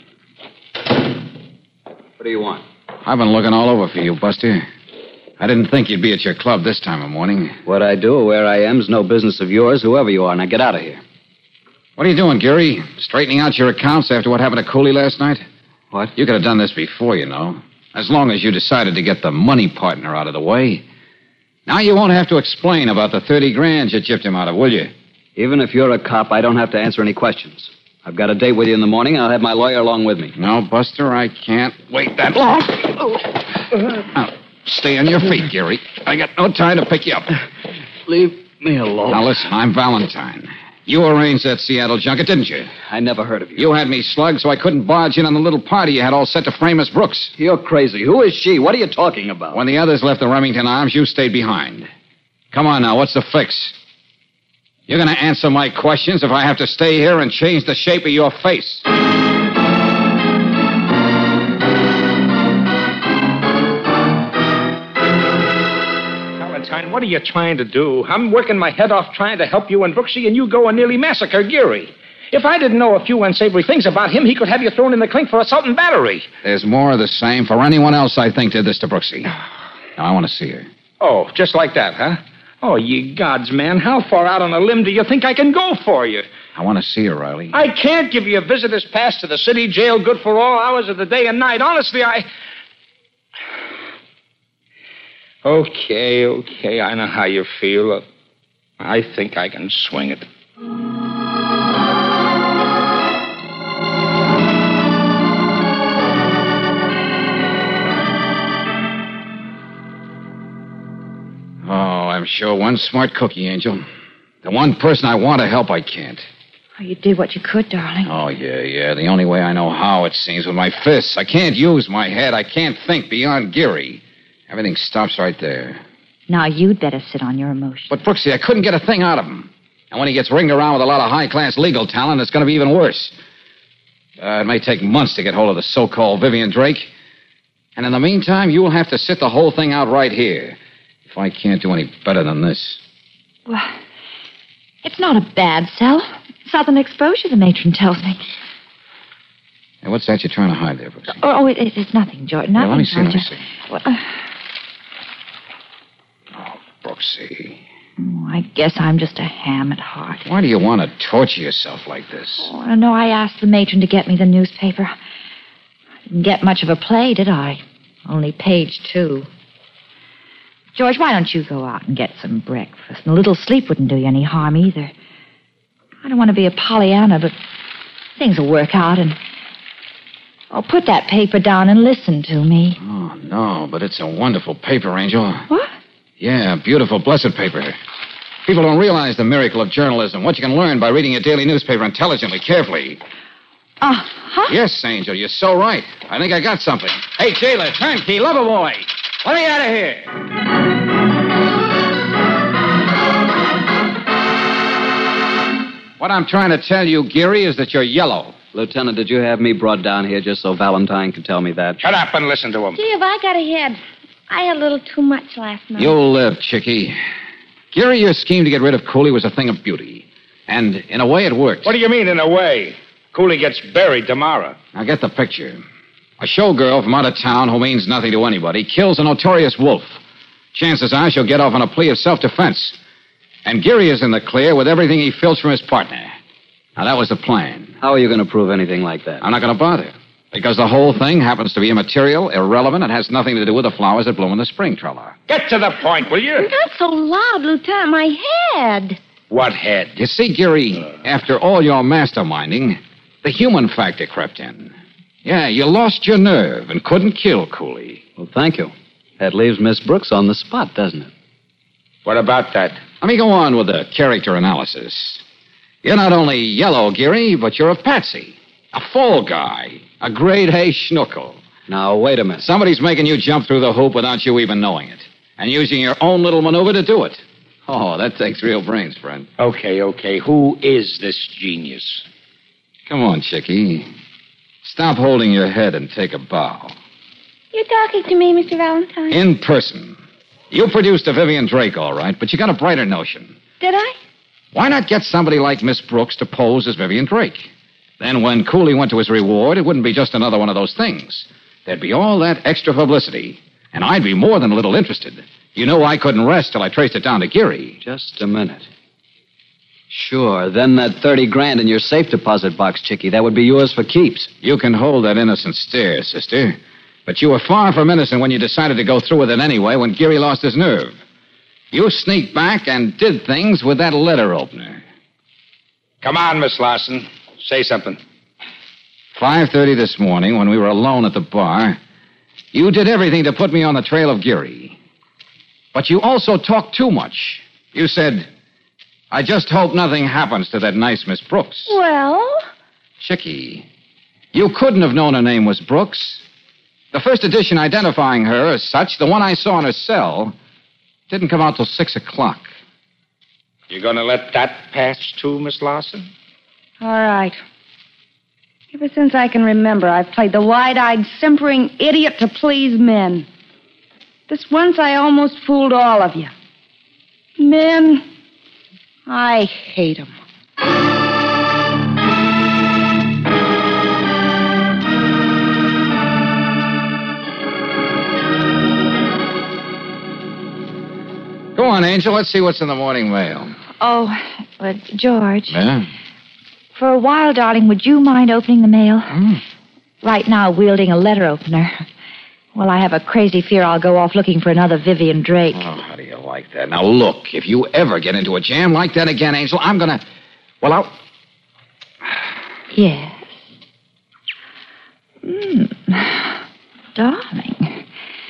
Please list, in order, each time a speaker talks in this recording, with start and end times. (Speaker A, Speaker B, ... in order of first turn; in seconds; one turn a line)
Speaker A: 2.2-2.6
Speaker B: 3.0-4.7
Speaker B: 5.4-7.6
Speaker A: 7.7-11.0
Speaker B: 12.0-15.4
Speaker B: 16.2-20.9
Speaker B: 21.7-24.9
Speaker A: 25.4-30.3
Speaker B: 30.4-33.2
Speaker B: 33.9-37.3
Speaker A: 38.1-39.3
Speaker B: 39.1-42.7
Speaker A: 42.8-43.7
Speaker B: 43.6-47.4
Speaker A: 47.4-49.6
Speaker B: 49.5-51.9
Speaker B: 52.5-53.8
Speaker B: 54.9-58.9
Speaker C: 66.4-76.3
Speaker B: 76.4-79.3
Speaker B: 80.0-80.7
Speaker C: 81.0-86.3
Speaker B: 86.6-87.6
Speaker C: 87.5-92.3
Speaker C: 95.4-98.0
Speaker C: 98.8-100.2
Speaker B: 111.7-113.9
Speaker B: 114.4-116.3
Speaker D: 116.8-118.1
Speaker B: 118.0-125.8
Speaker D: 126.3-128.0
Speaker B: 127.9-133.2
Speaker B: 134.2-136.9
Speaker B: 137.8-142.8
Speaker D: 143.5-143.7
Speaker D: 144.8-148.2
Speaker B: 149.8-151.2
Speaker D: 151.1-154.1
Speaker B: 152.6-153.4
Speaker B: 156.3-157.6
Speaker D: 158.0-160.3
Speaker B: 160.3-162.5
Speaker D: 162.4-164.9
Speaker D: 166.1-169.3
Speaker D: 170.8-174.9
Speaker D: 176.0-177.3
Speaker D: 178.2-179.2
Speaker D: 180.5-182.8
Speaker B: 182.8-185.5
Speaker B: 186.2-187.8
Speaker B: 188.4-193.0
Speaker D: 193.8-194.5
Speaker B: 194.5-200.1
Speaker B: 206.0-208.4
Speaker A: 208.5-211.8
Speaker C: 211.8-212.8
Speaker E: 212.8-215.9
Speaker B: 215.8-217.0
Speaker B: 217.7-221.7
Speaker C: 221.7-224.6
Speaker B: 224.7-225.6
Speaker B: 226.2-230.0
Speaker B: 230.5-232.8
Speaker B: 233.4-236.1
Speaker B: 236.8-237.8
Speaker A: 237.8-239.3
Speaker B: 239.2-245.2
Speaker C: 245.3-246.5
Speaker E: 246.4-249.0
Speaker C: 249.3-249.9
Speaker B: 250.0-258.0
Speaker A: 258.2-261.1
Speaker C: 262.1-262.8
Speaker B: 263.0-265.2
Speaker B: 265.8-271.4
Speaker A: 271.7-272.5
Speaker B: 272.4-279.3
Speaker C: 279.4-282.1
Speaker B: 282.9-283.9
Speaker B: 284.6-286.8
Speaker E: 287.5-289.2
Speaker B: 289.1-290.0
Speaker B: 290.5-293.4
Speaker E: 293.6-294.0
Speaker B: 294.5-307.8
Speaker A: 307.8-308.7
Speaker A: 309.9-314.3
Speaker B: 314.4-321.0
Speaker B: 321.7-324.8
Speaker C: 326.0-328.0
Speaker B: 329.1-331.8
Speaker B: 332.5-334.8
Speaker B: 335.7-338.3
Speaker B: 339.1-341.8
Speaker E: 341.7-342.4
Speaker B: 343.0-343.7
Speaker B: 344.3-346.2
Speaker B: 346.9-350.4
Speaker B: 351.1-352.6
Speaker C: 353.7-356.1
Speaker E: 356.8-357.4
Speaker E: 358.7-363.3
Speaker E: 364.3-366.3
Speaker E: 367.4-368.0
Speaker E: 369.1-370.1
Speaker B: 381.6-383.6
Speaker D: 383.8-385.6
Speaker B: 385.5-385.9
Speaker D: 386.7-389.2
Speaker B: 389.1-389.4
Speaker D: 390.0-391.8
Speaker D: 392.5-395.6
Speaker B: 395.5-400.0
Speaker B: 400.6-401.0
Speaker D: 402.7-403.4
Speaker D: 405.2-406.4
Speaker D: 406.9-407.8